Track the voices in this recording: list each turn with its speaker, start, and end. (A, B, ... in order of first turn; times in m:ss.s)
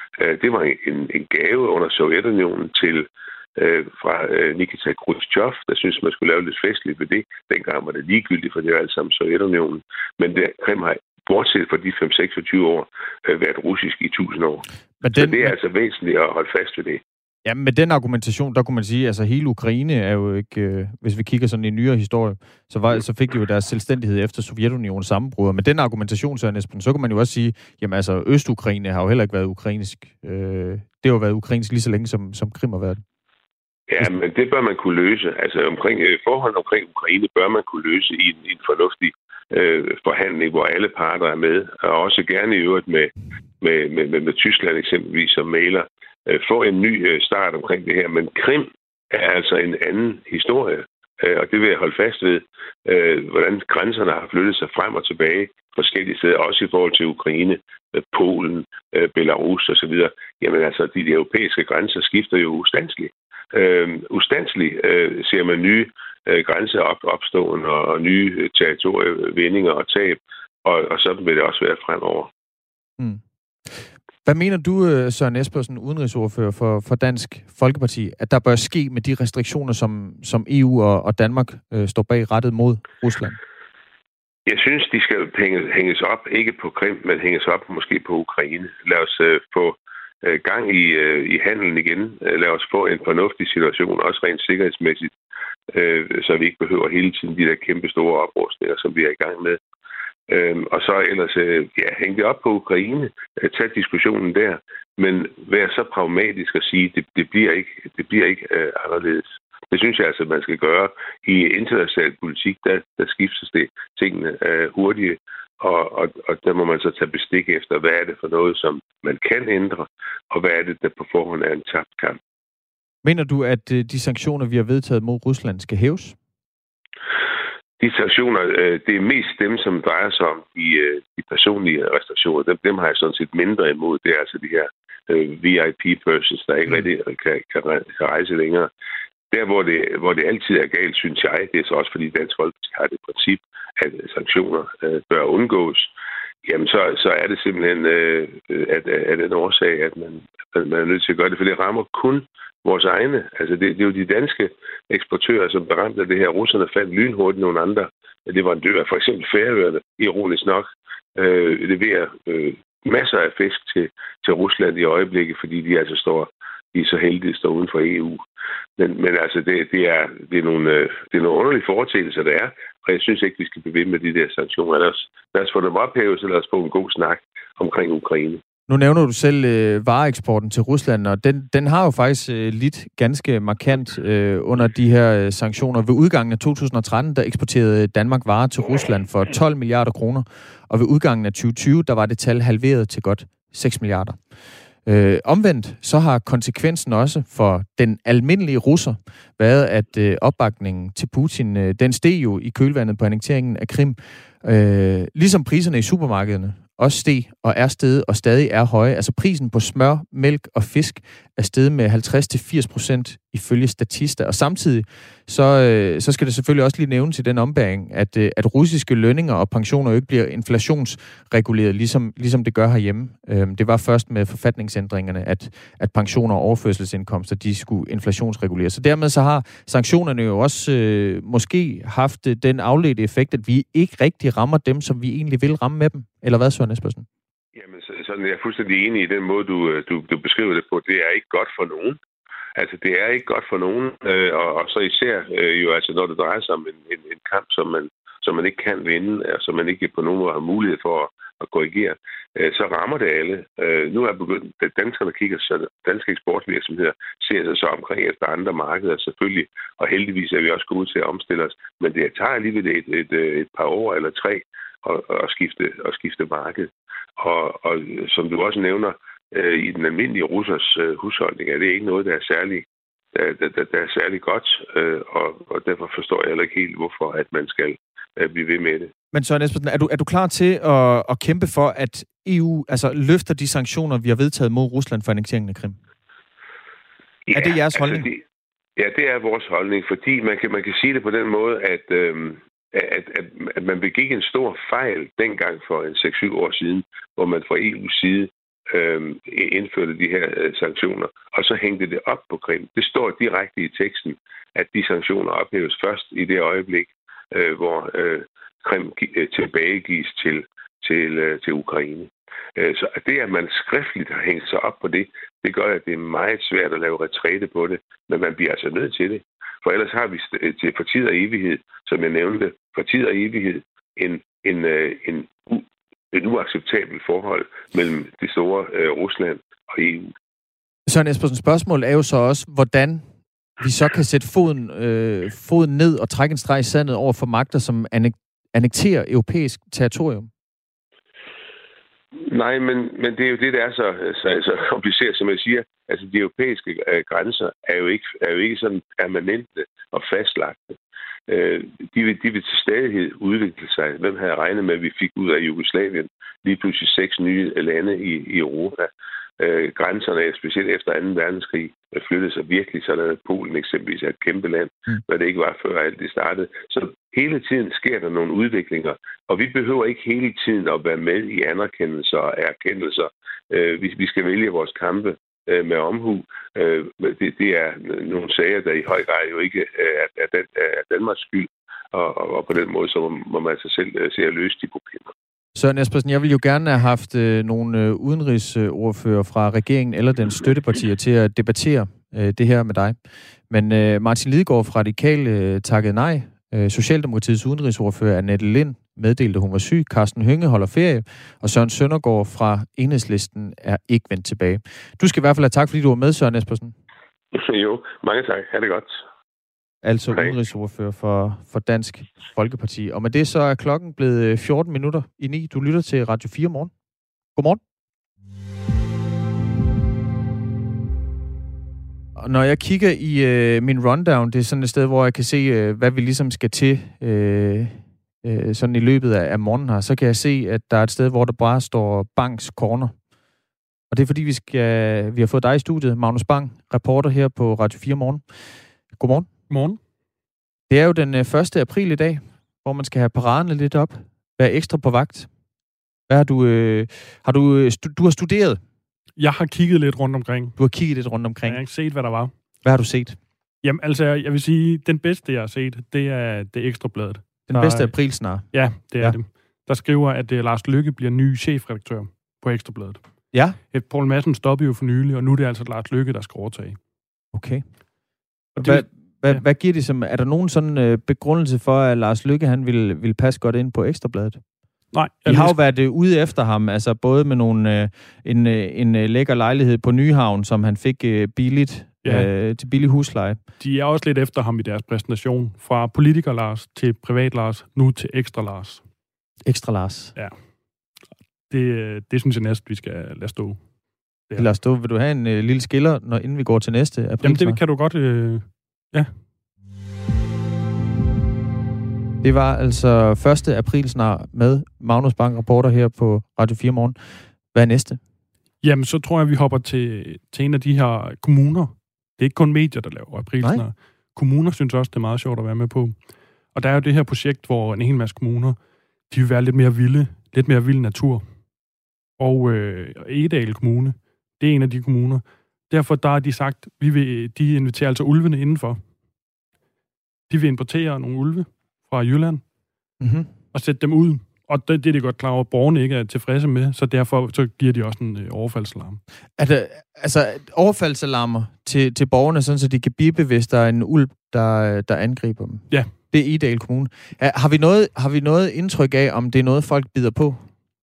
0:00.2-0:17.0 A
0:15.0-0:15.5 B
0:17.4-0:33.0 B
0:33.9-1:12.3 A
1:13.0-1:23.4 B
1:24.5-1:35.1 A
1:35.7-1:39.6 A
1:40.3-2:02.2 A
2:03.0-2:06.2 B
2:07.8-2:18.7 A
2:19.3-2:25.9 A
2:26.4-2:48.2 A
2:48.8-2:58.4 A
2:58.7-3:57.1 B
3:57.6-4:02.0 A
4:02.6-4:38.9 A
4:39.1-4:45.8 B
4:47.3-4:48.2 A
4:47.3-4:48.1 B
4:48.8-5:30.1 A
5:30.9-5:40.3 B
5:42.3-5:50.8 A
5:51.3-6:25.1 A
6:25.6-6:33.0 B
6:33.5-6:46.8 B
6:47.3-6:49.0 A
6:49.8-6:56.7 B
6:57.3-6:57.6 B
7:02.2-7:13.0 B
7:13.9-7:19.3 B
7:19.5-7:19.8 C
7:20.7-7:25.3 B
7:26.1-7:28.6 B
7:29.2-7:30.6 C
7:30.6-7:31.7 B
7:31.4-7:32.4 C
7:32.6-7:33.2 B
7:33.6-7:46.8 C
7:37.5-7:39.2 B
7:43.3-7:43.6 B
7:47.3-7:47.7 B
7:48.6-7:49.4 C
7:48.6-7:54.5 B
7:54.9-7:55.6 C
7:55.3-8:03.4 B
8:02.0-8:02.3 C
8:03.6-8:08.9 C
8:09.5-8:10.2 B
8:10.2-8:14.5 C
8:14.4-8:17.6 B
8:17.2-8:19.2 C
8:22.2-8:28.0 B
8:28.6-8:41.5 C
8:33.4-8:33.7 B
8:42.2-8:49.0 C
8:50.3-8:59.0 C
8:53.0-8:53.3 B
8:59.4-9:10.5 B
9:05.7-9:06.0 C